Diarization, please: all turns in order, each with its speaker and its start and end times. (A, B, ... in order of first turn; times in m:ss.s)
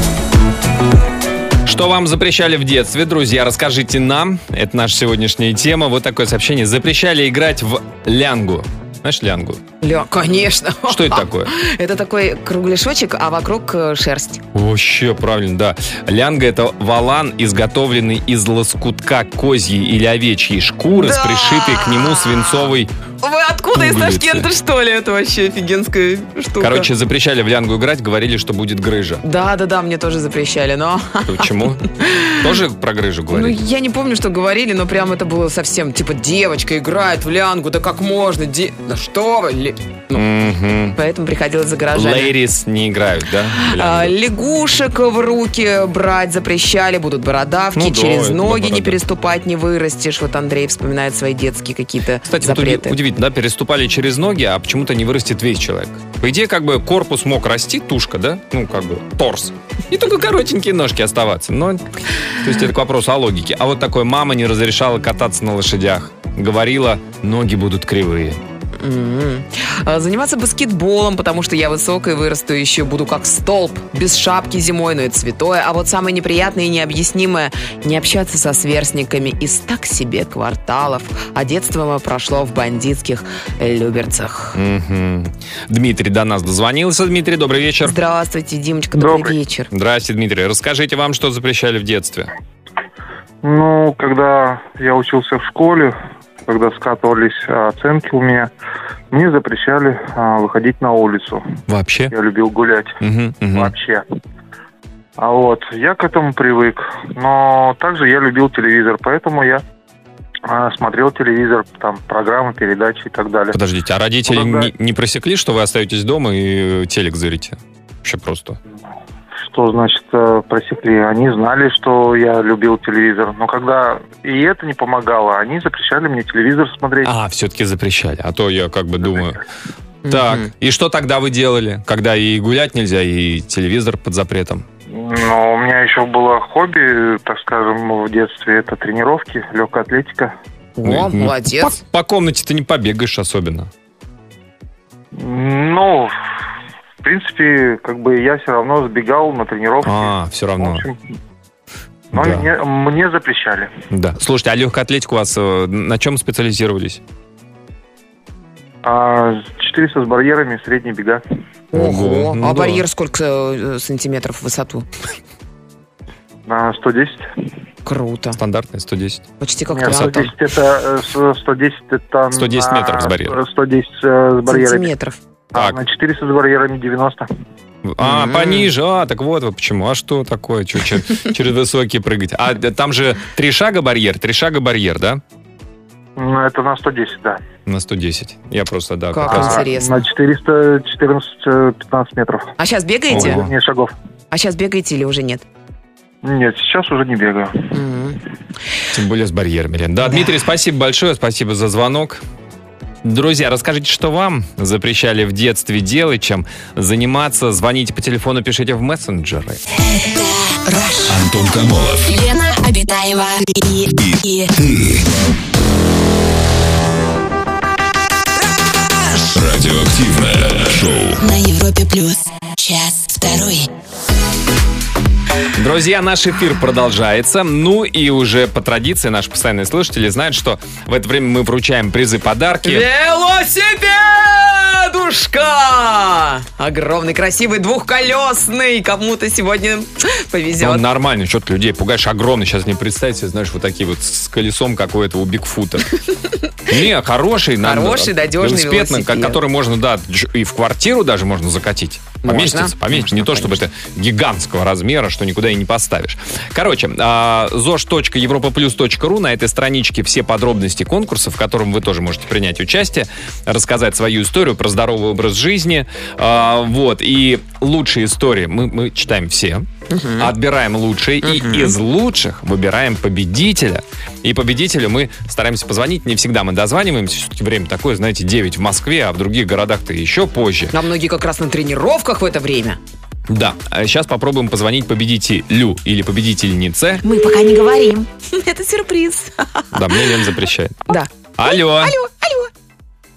0:01.6-0:09.6 A
0:09.8-0:14.4 B
0:10.9-0:11.5 A
0:14.5-0:22.9 A
0:20.9-0:22.7 B
0:23.2-0:26.9 B
0:23.7-0:24.5 A
0:26.6-0:29.2 A
0:29.2-0:32.5 B
0:31.2-0:31.8 A
0:32.4-0:33.6 A
0:33.3-0:40.2 B
0:40.1-0:41.0 A
0:40.9-0:42.3 B
0:41.9-0:44.2 A
0:43.5-0:53.0 B
0:47.7-0:49.0 A
0:52.2-1:08.4 A
1:08.8-1:24.6 B
1:24.5-1:27.9 A
1:27.8-1:29.7 B
1:28.9-1:29.4 C
1:29.7-1:32.3 A
1:33.4-1:38.5 C
1:39.1-1:41.4 C
1:41.7-1:42.1 A
1:42.1-1:43.0 C
1:43.0-1:43.7 A
1:43.5-1:44.0 C
1:45.2-1:49.6 C
1:50.4-1:53.6 C
1:53.5-1:58.6 A
1:54.3-1:54.7 C
1:59.4-2:07.1 C
2:07.0-2:09.4 A
2:10.0-2:10.5 B
2:10.1-2:14.6 A
2:14.9-2:20.3 C
2:20.8-2:21.8 B
2:20.8-2:23.7 A
2:25.1-2:26.1 C
2:27.0-2:31.0 C
2:29.8-2:30.8 A
2:32.1-2:32.5 A
2:32.1-2:33.7 C
2:33.9-2:37.0 A
2:38.8-2:41.2 C
2:41.7-2:42.8 A
2:41.7-2:44.9 B
2:46.5-2:47.3 C
2:47.8-2:48.4 B
2:48.4-2:50.3 A
2:49.4-2:50.3 B
2:49.7-2:54.9 C
2:52.3-2:53.4 A
2:54.5-2:55.2 B
2:55.5-2:57.3 C
2:55.5-2:55.8 A
2:57.8-3:05.2 A
2:58.0-2:58.7 B
3:06.2-3:07.4 C
3:07.6-3:09.7 A
3:09.1-3:10.0 B
3:09.3-3:12.5 C
3:12.6-3:13.4 B
3:13.1-3:13.9 C
3:13.1-3:13.5 A
3:14.3-3:15.4 B
3:16.2-3:17.7 C
3:17.7-3:18.2 B
3:18.9-3:22.2 A
3:20.0-3:20.4 B
3:23.0-3:29.6 A
3:29.8-3:31.2 D
3:31.1-3:32.2 E
3:32.1-3:34.5 D
3:34.0-3:35.0 E
3:39.3-3:41.2 E
3:41.2-3:43.7 D
3:45.6-3:52.9 A
3:52.6-4:00.8 B
4:00.6-4:05.9 A
4:06.7-4:29.7 A
4:07.6-4:09.4 B
4:12.2-4:13.5 B
4:29.9-4:30.3 B
4:30.2-4:40.7 A
4:31.2-4:31.7 B
4:40.7-4:42.8 B
4:43.3-4:47.0 A
4:47.0-4:50.1 B
4:49.7-4:52.0 A
4:50.9-4:52.5 B